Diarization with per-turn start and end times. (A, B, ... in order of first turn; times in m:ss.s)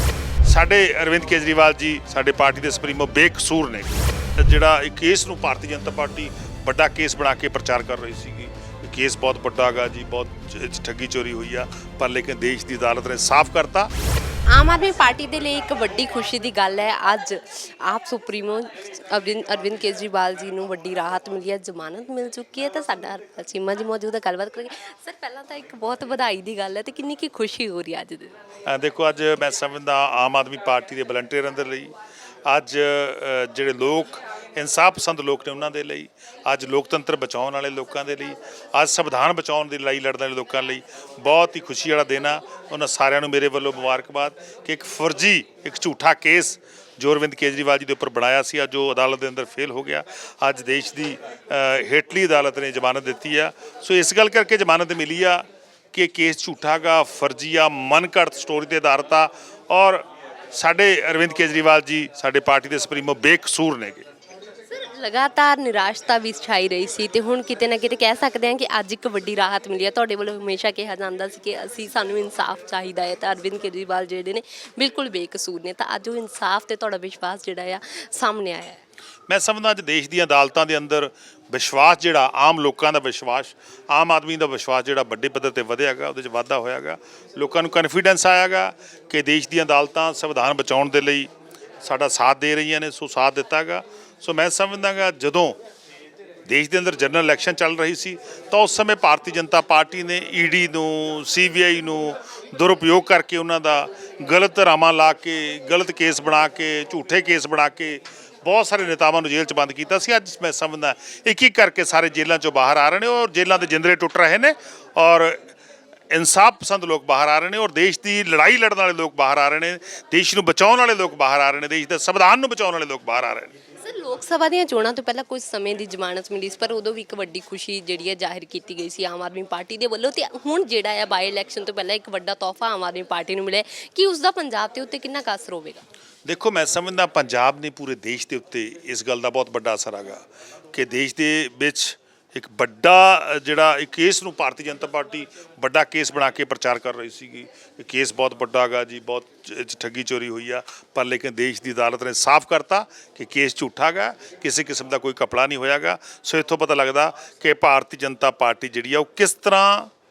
0:00.4-0:13.9 A
0:14.5-0:28.3 B
0:28.7-0:31.9 A
0:32.5-1:04.1 A
1:04.7-1:18.8 B
1:19.3-1:31.3 A
1:31.8-1:35.6 A
1:36.5-1:55.5 A
1:56.1-2:03.5 A
2:03.8-2:15.8 B
2:16.3-2:39.9 A